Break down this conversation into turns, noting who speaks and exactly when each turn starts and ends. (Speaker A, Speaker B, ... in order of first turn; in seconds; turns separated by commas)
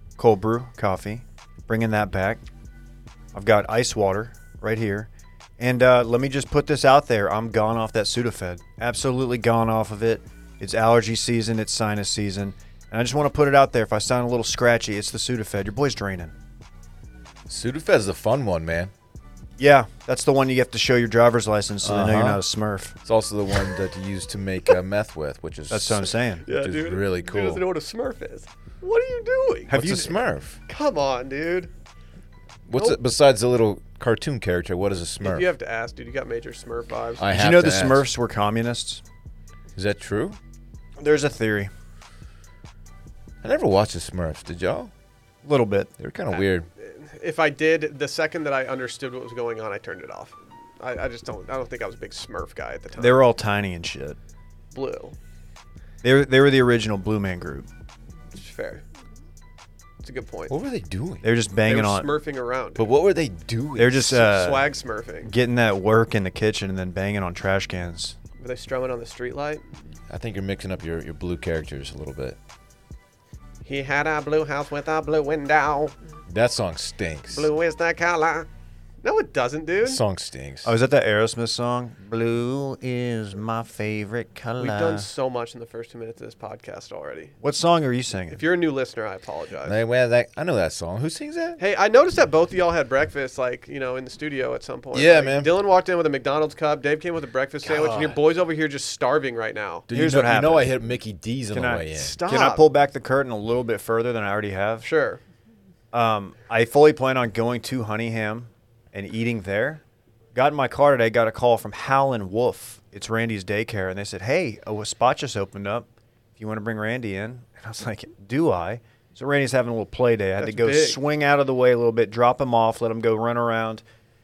Speaker A: 0.2-2.4, Speaker A: 3.3-16.3, Speaker B: 17.5-18.9, Speaker A: 19.6-22.9, Speaker B: 21.8-22.4, Speaker B: 23.0-27.6, Speaker A: 25.7-26.5, Speaker C: 26.4-29.7, Speaker A: 29.7-30.1, Speaker B: 29.7-30.6, Speaker C: 30.7-31.7, Speaker B: 32.7-35.5, Speaker C: 35.2-37.2, Speaker B: 37.2-38.1, Speaker A: 37.3-39.0, Speaker B: 39.8-40.4, Speaker A: 41.0-41.7, Speaker B: 43.4-44.9, Speaker A: 45.4-45.9, Speaker B: 46.0-46.7, Speaker C: 46.3-53.2, Speaker A: 53.0-54.2, Speaker C: 54.7-55.2, Speaker A: 56.0-57.7, Speaker C: 58.4-58.8, Speaker C: 60.0-60.5, Speaker B: 60.5-61.2, Speaker A: 61.2-62.1, Speaker C: 61.7-62.9, Speaker B: 62.8-64.3, Speaker A: 63.8-68.2, Speaker C: 64.1-65.3, Speaker C: 68.4-69.7, Speaker B: 70.1-72.4, Speaker C: 73.7-76.0, Speaker B: 76.3-77.5, Speaker C: 77.3-78.5, Speaker C: 79.0-80.0, Speaker B: 79.8-80.7, Speaker A: 80.6-85.1, Speaker C: 84.6-87.3, Speaker A: 87.4-88.4, Speaker C: 88.3-89.8, Speaker B: 89.6-91.6, Speaker C: 91.6-99.9, Speaker B: 94.9-95.5, Speaker B: 97.6-98.2, Speaker B: 99.9-102.2, Speaker A: 99.9-100.7, Speaker A: 101.5-104.9, Speaker C: 101.9-102.7, Speaker C: 104.8-105.2, Speaker A: 105.9-109.8, Speaker A: 110.3-115.9, Speaker A: 116.4-123.8, Speaker C: 120.4-121.0